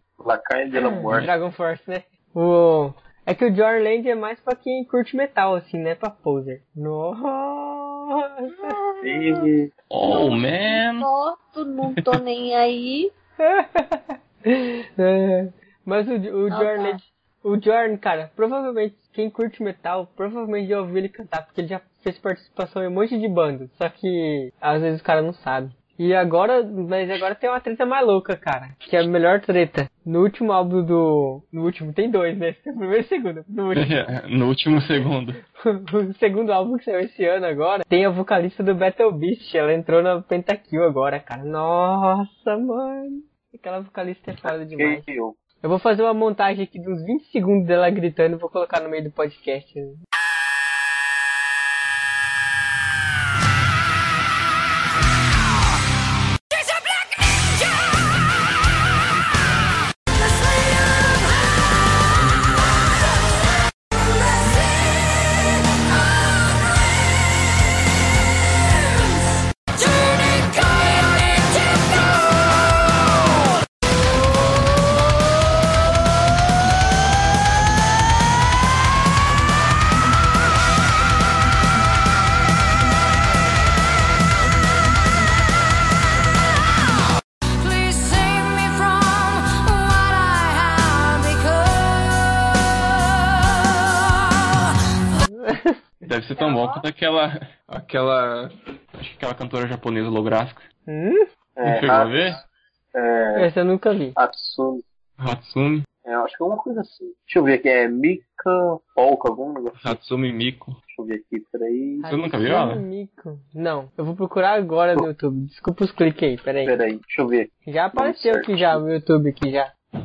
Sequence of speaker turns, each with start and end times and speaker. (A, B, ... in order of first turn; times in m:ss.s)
0:00.2-0:01.3 A
0:00.8-0:08.8 B
0:08.5-0:09.5 C
0:09.0-0:09.7 A
0:09.9-0:11.1 D
0:10.1-0:13.1 C
0:13.4-0:34.1 B
0:16.5-0:17.0 C
0:33.8-0:35.4 D
0:35.6-0:45.0 B
0:44.4-0:45.4 A
0:45.6-0:50.0 B
1:28.4-1:29.2 E
1:29.8-1:31.2 E
1:35.2-1:35.8 B
1:36.0-1:40.7 D
1:36.4-1:36.8 C
1:40.9-1:41.2 B
1:41.6-1:42.4 A
1:41.6-1:42.4 D
1:42.9-1:43.5 A
1:43.4-1:44.2 B
1:44.2-1:44.8 A
1:45.2-1:45.9 D
1:46.0-1:50.0 A
1:49.8-1:50.8 D
1:50.9-1:52.1 A
1:52.0-1:56.7 B
1:52.1-1:52.8 D
1:56.6-1:58.8 A
1:57.7-1:59.7 B